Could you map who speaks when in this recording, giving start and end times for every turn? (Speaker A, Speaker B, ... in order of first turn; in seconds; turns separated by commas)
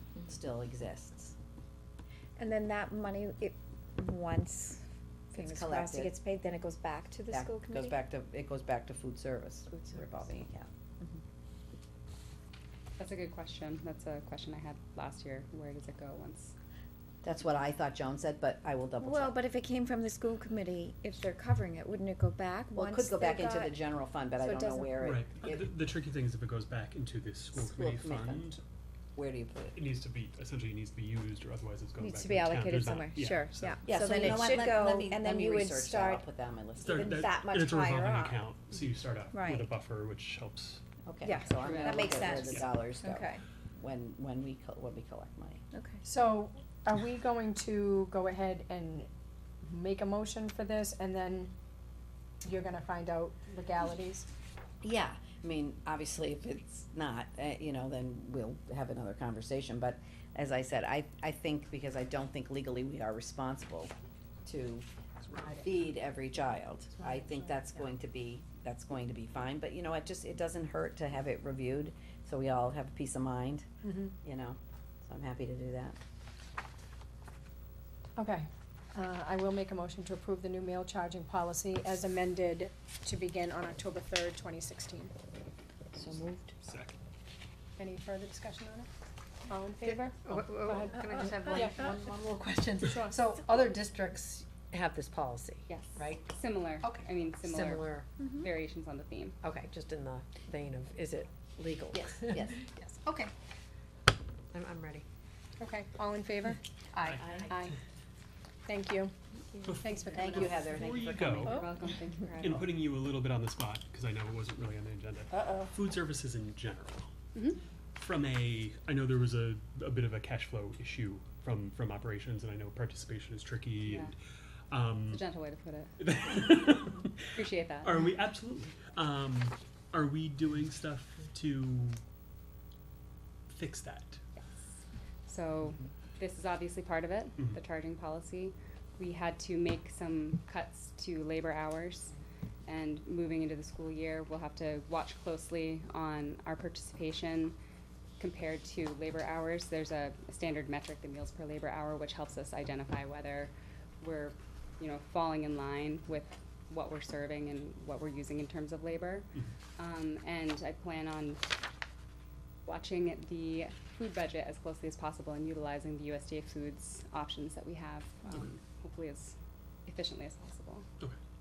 Speaker A: 0.3-1.4, Speaker B: 2.4-8.0, Speaker A: 5.4-6.1, Speaker A: 7.3-10.7, Speaker C: 13.0-16.5, Speaker A: 17.2-19.4, Speaker B: 19.0-23.8, Speaker A: 22.8-25.6, Speaker B: 24.4-25.1, Speaker D: 25.0-28.6, Speaker A: 27.5-28.5, Speaker A: 29.1-29.8, Speaker D: 29.8-34.5, Speaker B: 32.0-36.2, Speaker A: 33.8-37.3, Speaker D: 36.8-40.8, Speaker B: 36.8-38.4, Speaker B: 39.3-39.7, Speaker A: 41.1-45.6, Speaker B: 41.2-43.4, Speaker C: 41.6-42.1, Speaker D: 41.6-42.8, Speaker B: 45.7-46.0, Speaker E: 46.0-49.1, Speaker E: 49.6-51.5, Speaker E: 52.4-54.2, Speaker A: 54.8-63.9, Speaker A: 64.4-73.7, Speaker E: 65.3-65.7, Speaker E: 67.0-67.4, Speaker E: 73.8-74.1, Speaker A: 74.2-76.0, Speaker E: 78.2-85.1, Speaker B: 85.9-86.5, Speaker D: 86.6-86.9, Speaker E: 87.8-88.9, Speaker E: 89.5-91.9, Speaker F: 89.9-98.1, Speaker B: 91.1-91.5, Speaker E: 93.0-93.2, Speaker C: 95.7-99.4, Speaker B: 98.2-98.5, Speaker F: 99.4-103.2, Speaker A: 101.9-102.6, Speaker F: 104.5-105.0, Speaker E: 105.6-106.6, Speaker F: 107.0-107.5, Speaker D: 107.0-107.4, Speaker E: 107.5-107.8, Speaker E: 108.6-109.1, Speaker D: 109.6-111.6, Speaker E: 109.7-110.8, Speaker A: 110.1-111.5, Speaker C: 111.4-112.7, Speaker D: 112.4-117.1, Speaker E: 115.3-115.7, Speaker D: 118.0-124.1, Speaker C: 123.8-124.1, Speaker D: 124.7-125.2, Speaker C: 125.1-125.9, Speaker D: 126.0-127.2, Speaker C: 127.3-128.0, Speaker D: 127.8-132.0, Speaker D: 133.5-134.2, Speaker C: 134.4-134.7, Speaker C: 135.3-142.1, Speaker C: 142.7-147.6, Speaker C: 148.2-161.4, Speaker C: 162.7-169.3, Speaker C: 169.9-170.9